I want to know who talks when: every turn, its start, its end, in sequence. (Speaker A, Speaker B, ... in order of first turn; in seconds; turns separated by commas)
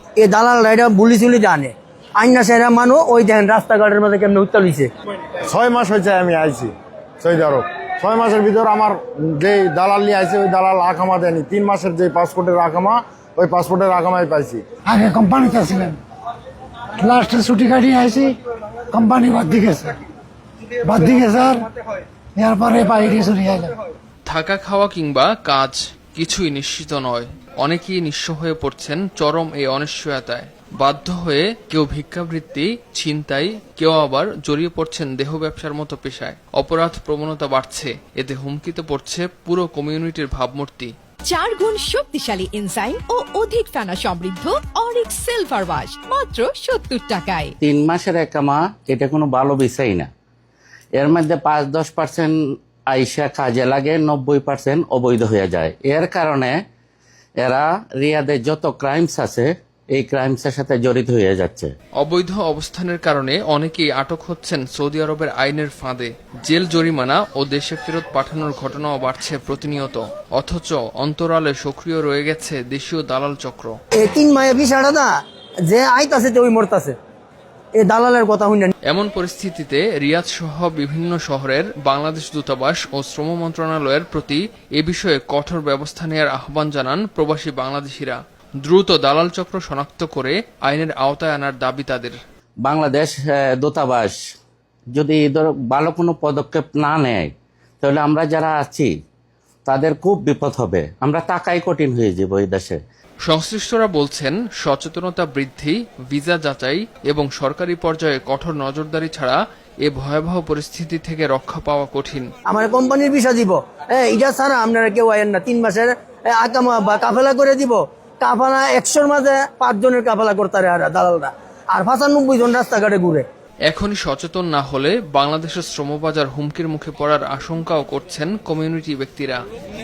Speaker A: 0.2-4.9, Speaker B: 5.5-14.6, Speaker C: 14.8-16.0, Speaker C: 17.0-18.4, Speaker C: 18.9-20.0, Speaker C: 20.8-21.7, Speaker C: 22.4-23.8, Speaker D: 24.2-40.9, Speaker E: 41.3-47.5, Speaker F: 47.6-50.1, Speaker F: 51.0-52.3, Speaker F: 52.9-56.5, Speaker F: 57.4-61.7, Speaker D: 62.0-73.7, Speaker A: 74.0-75.1, Speaker A: 75.7-77.0, Speaker A: 77.8-78.7, Speaker D: 78.9-92.2, Speaker F: 92.6-94.2, Speaker F: 94.9-97.3, Speaker F: 97.8-98.9, Speaker F: 99.7-102.8, Speaker D: 103.2-112.3, Speaker A: 112.5-123.2, Speaker D: 123.7-129.4